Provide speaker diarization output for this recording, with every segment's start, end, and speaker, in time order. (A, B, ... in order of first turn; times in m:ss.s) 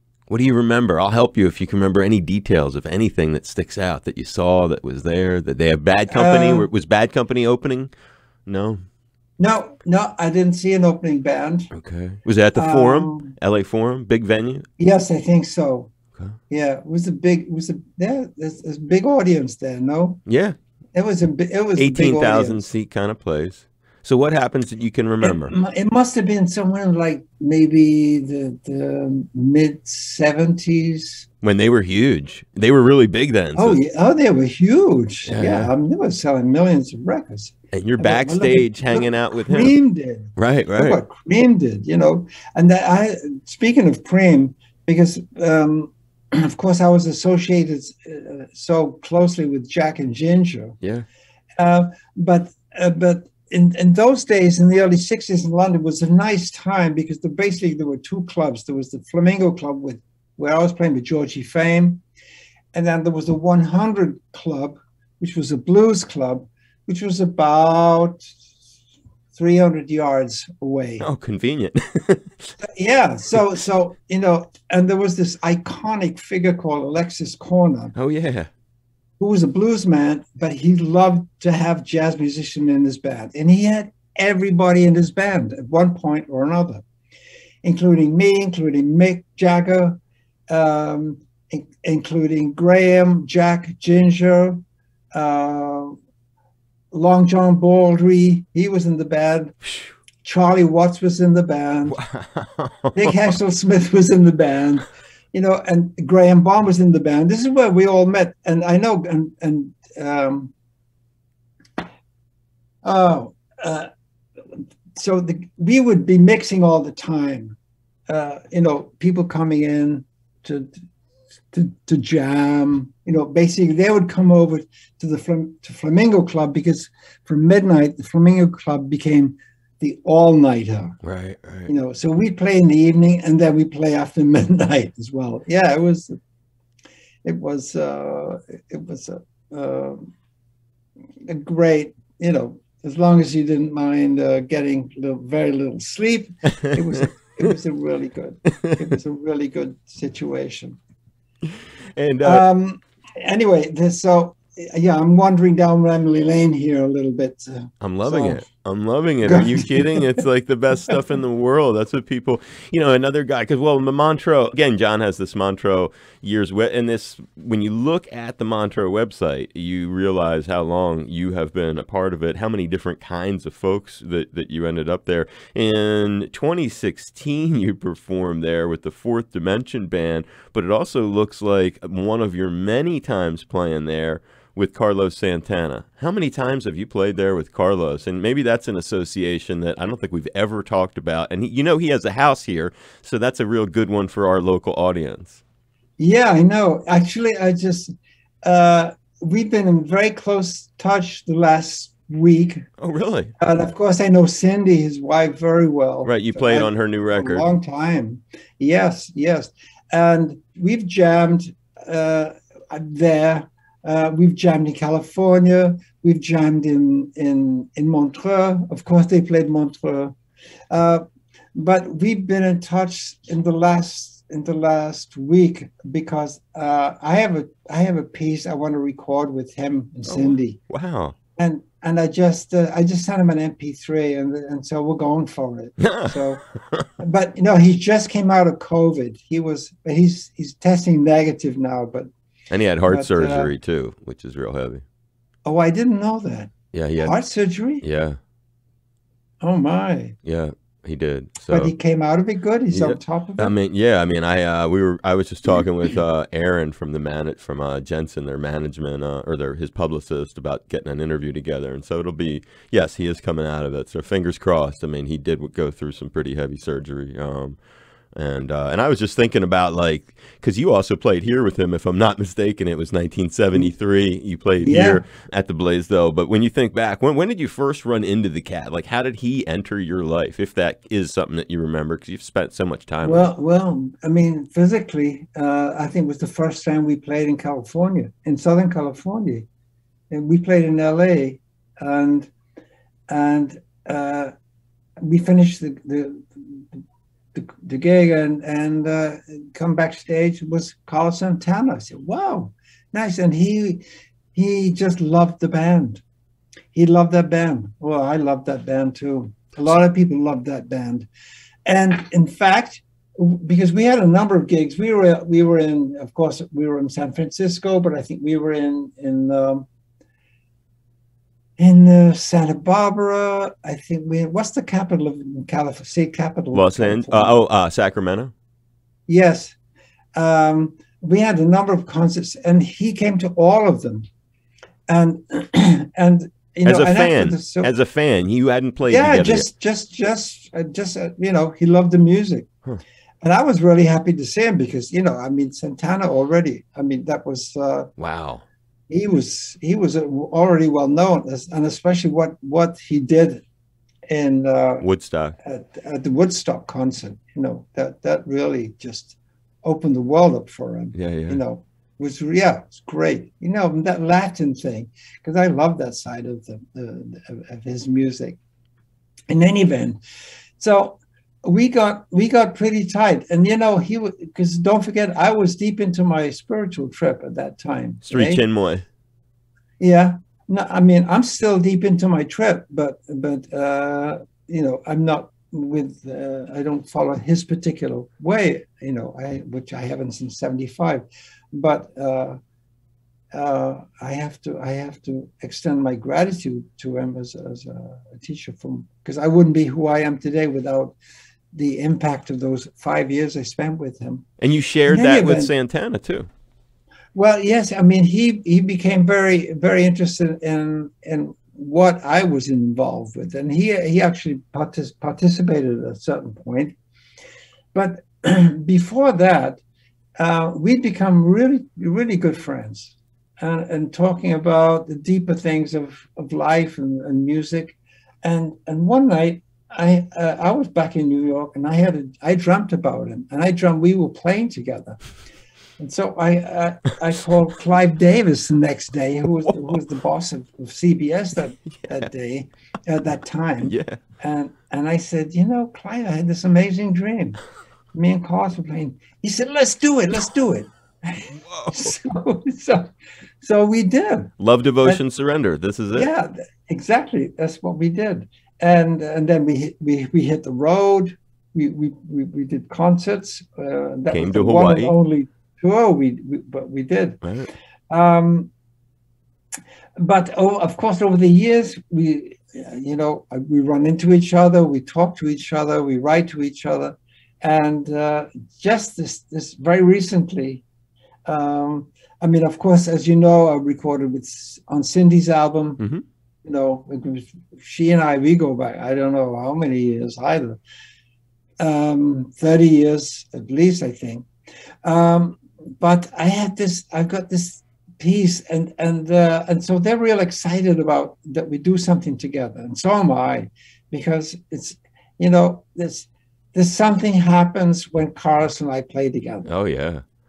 0:00.3-0:07.9 A
0:06.1-0:06.7 B
0:08.4-0:08.8 A
0:09.4-0:11.7 B
0:11.7-0:14.7 A
0:12.6-0:13.4 B
0:14.8-0:15.9 B
0:16.5-0:20.2 B
0:20.3-0:20.6 A
0:20.9-0:22.7 B
0:21.8-0:25.5 A
0:25.2-0:31.3 B
0:31.4-0:33.8 A
0:33.6-0:50.8 B
0:35.2-0:35.7 A
0:37.7-0:39.7 A
0:40.4-0:41.0 A
0:51.6-1:02.0 B
1:02.7-1:08.3 B
1:09.3-1:11.1 B
1:11.0-1:12.5 A
1:12.6-1:17.9 B
1:18.0-1:18.5 A
1:19.2-1:26.8 B
1:27.6-1:34.6 B
1:35.1-1:36.0 B
1:36.9-1:39.5 B
1:40.2-1:42.0 B
1:41.9-1:43.2 A
1:42.9-1:50.5 B
1:52.8-1:53.9 B
1:54.9-1:57.6 B
1:58.1-2:00.7 B
2:01.5-2:11.0 B
2:11.0-2:11.7 A
2:11.6-2:16.2 B
2:17.2-2:20.1 B
2:21.3-2:30.8 B
2:31.5-2:32.4 A
2:32.2-2:38.4 B
2:37.8-3:15.4 A
2:39.2-2:40.1 B
3:16.0-3:22.7 B
3:22.8-3:23.3 A
3:23.4-3:40.1 B
3:26.0-3:27.4 A
3:40.7-3:41.0 B
3:41.5-3:50.6 B
3:50.1-3:51.2 A
3:51.4-3:56.4 B
3:55.8-3:56.2 A
3:57.0-4:02.1 B
4:02.5-4:04.8 A
4:02.9-4:03.5 B
4:05.4-4:07.8 B
4:06.7-4:07.2 A
4:07.8-4:08.2 A
4:09.4-4:10.2 B
4:10.2-4:11.7 A
4:11.5-4:13.5 B
4:12.7-4:27.6 A
4:28.1-4:43.3 A
4:34.6-4:35.0 B
4:43.0-4:49.4 B
4:50.1-4:52.3 B
4:53.1-4:54.3 B
4:55.0-4:56.8 B
4:57.3-5:03.8 B
5:04.3-5:06.0 B
5:06.7-5:11.1 B
5:11.6-5:19.7 B
5:21.6-5:27.4 B
5:26.5-5:28.3 A
5:29.1-5:29.6 B
5:30.2-5:34.1 B
5:34.9-5:37.7 B
5:36.6-5:39.5 A
5:38.9-5:42.5 B
5:43.2-5:47.9 B
5:48.0-5:48.4 A
5:48.9-5:53.4 B
5:54.1-5:54.9 B
5:54.8-5:55.4 A
5:55.4-6:08.4 B
6:00.9-6:01.4 A
6:09.3-6:10.0 B
6:10.6-6:18.4 B
6:18.0-6:18.8 A
6:19.8-6:32.4 B
6:33.3-6:40.9 B
6:41.5-6:44.2 B
6:44.4-6:46.3 A
6:44.9-6:45.5 B
6:47.1-6:56.8 B
6:57.7-6:59.6 B
7:00.2-7:15.0 B
7:15.8-7:27.4 B
7:23.6-7:24.0 A
7:27.9-7:32.9 B
7:31.5-7:31.9 A
7:33.4-7:34.3 B
7:34.4-7:36.1 A
7:35.9-7:47.2 B
7:44.1-7:45.0 A
7:47.2-7:47.5 A
7:47.9-7:48.5 B
7:50.0-8:00.6 B
8:01.2-8:05.8 B
8:06.4-8:10.6 B
8:11.6-8:14.3 B
8:14.8-8:29.5 B
8:29.4-8:30.0 A